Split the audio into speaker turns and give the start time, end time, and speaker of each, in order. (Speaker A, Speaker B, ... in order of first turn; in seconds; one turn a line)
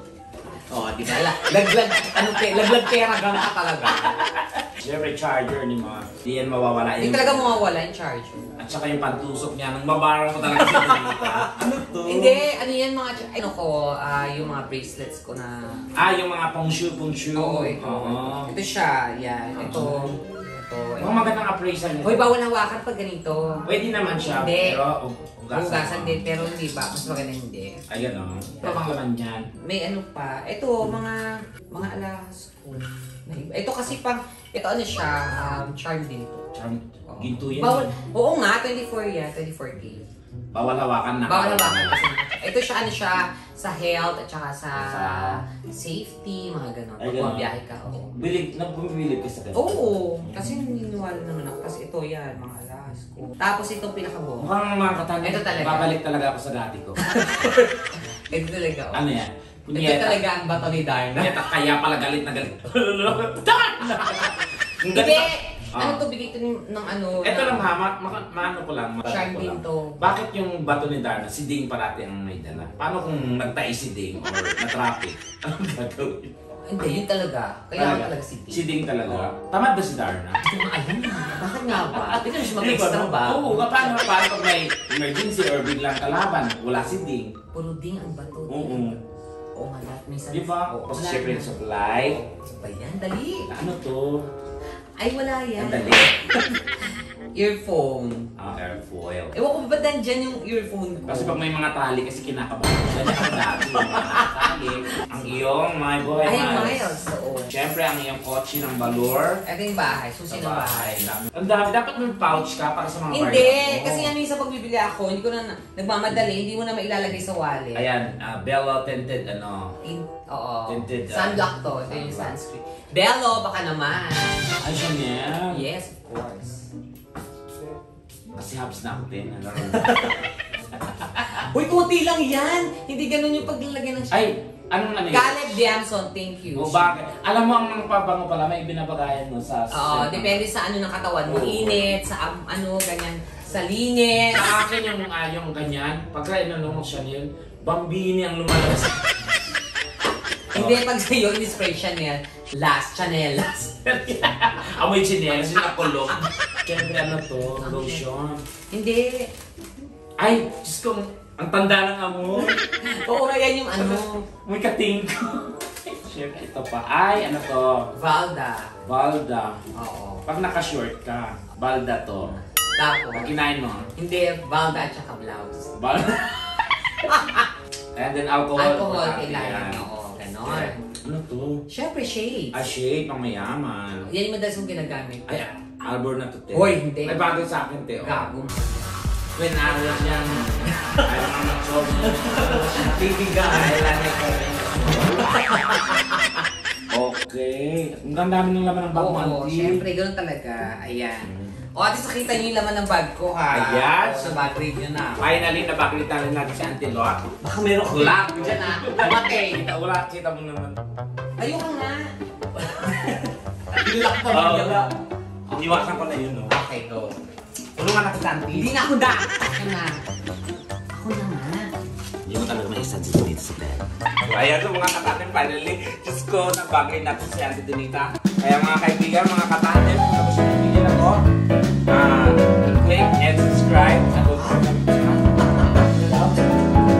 Speaker A: 0.7-4.2
Speaker B: 2.1-3.0
Speaker B: 3.8-7.8
Speaker A: 7.0-8.5
Speaker B: 8.6-12.4
Speaker A: 10.5-15.9
Speaker B: 16.0-18.5
Speaker A: 17.3-21.3
Speaker B: 19.6-20.1
Speaker B: 21.0-22.3
Speaker A: 22.0-23.7
Speaker B: 23.6-26.3
Speaker A: 24.2-24.8
Speaker A: 25.5-27.8
Speaker B: 27.9-29.5
Speaker A: 28.6-28.9
Speaker A: 29.6-36.4
Speaker B: 36.5-37.9
Speaker A: 37.1-40.0
Speaker B: 40.5-42.0
Speaker A: 41.2-48.1
Speaker B: 44.8-45.4
Speaker B: 47.0-47.5
Speaker B: 48.1-50.4
Speaker A: 49.5-54.5
Speaker B: 54.4-57.0
Speaker A: 55.2-55.9
Speaker A: 57.0-59.0
Speaker B: 58.9-60.2
Speaker A: 59.7-61.4
Speaker B: 61.1-66.0
Speaker A: 64.9-67.7
Speaker B: 67.2-76.3
Speaker A: 69.0-70.0
Speaker A: 76.7-79.2
Speaker B: 77.8-80.4
Speaker A: 80.4-84.1
Speaker B: 81.7-87.3
Speaker A: 87.5-89.0
Speaker B: 88.5-89.0
Speaker A: 89.6-93.5
Speaker B: 90.3-92.2
Speaker B: 93.5-94.2
Speaker A: 95.0-98.3
Speaker B: 95.6-96.2
Speaker B: 98.4-99.3
Speaker A: 99.3-101.4
Speaker B: 101.1-106.9
Speaker A: 103.1-105.2
Speaker A: 106.2-107.5
Speaker B: 107.5-109.4
Speaker A: 109.5-111.0
Speaker B: 110.3-114.1
Speaker A: 113.1-117.9
Speaker B: 117.8-119.8
Speaker A: 119.8-124.6
Speaker B: 120.7-122.4
Speaker B: 124.6-125.6
Speaker A: 125.5-126.7
Speaker B: 128.3-131.5
Speaker A: 129.7-130.2
Speaker A: 131.4-134.3
Speaker B: 134.1-135.6
Speaker A: 135.1-136.9
Speaker B: 136.5-140.4
Speaker A: 139.7-144.6
Speaker B: 141.2-141.9
Speaker B: 144.3-149.2
Speaker A: 150.5-153.8
Speaker B: 150.5-150.8
Speaker B: 153.8-158.4
Speaker A: 155.5-156.2
Speaker A: 157.6-158.1
Speaker A: 158.7-159.3
Speaker B: 160.2-162.6
Speaker A: 162.4-164.3
Speaker B: 163.7-167.9
Speaker A: 168.0-168.8
Speaker B: 168.8-169.6
Speaker A: 169.8-170.2
Speaker B: 170.3-172.3
Speaker A: 172.2-173.3
Speaker B: 173.1-173.9
Speaker A: 174.0-175.8
Speaker B: 175.8-176.7
Speaker A: 177.0-177.5
Speaker B: 178.0-179.8
Speaker A: 178.6-180.8
Speaker B: 180.5-181.6
Speaker A: 181.7-182.6
Speaker B: 182.5-184.1
Speaker A: 184.0-185.3
Speaker B: 185.3-188.3
Speaker A: 186.5-187.3
Speaker A: 187.9-189.0
Speaker B: 189.4-196.2
Speaker A: 190.7-191.3
Speaker A: 192.0-194.2
Speaker A: 194.9-196.0
Speaker B: 196.9-199.8
Speaker A: 198.9-205.3
Speaker B: 201.2-201.6
Speaker B: 203.5-204.5
Speaker B: 205.2-210.8
Speaker A: 207.4-209.6
Speaker A: 211.4-212.1
Speaker A: 212.7-215.0
Speaker B: 212.8-213.2
Speaker B: 214.3-214.9
Speaker B: 215.5-216.5
Speaker A: 215.5-217.1
Speaker B: 217.8-218.8
Speaker A: 218.5-220.0
Speaker A: 220.9-221.7
Speaker B: 222.2-231.2
Speaker B: 231.9-235.2
Speaker A: 234.3-236.8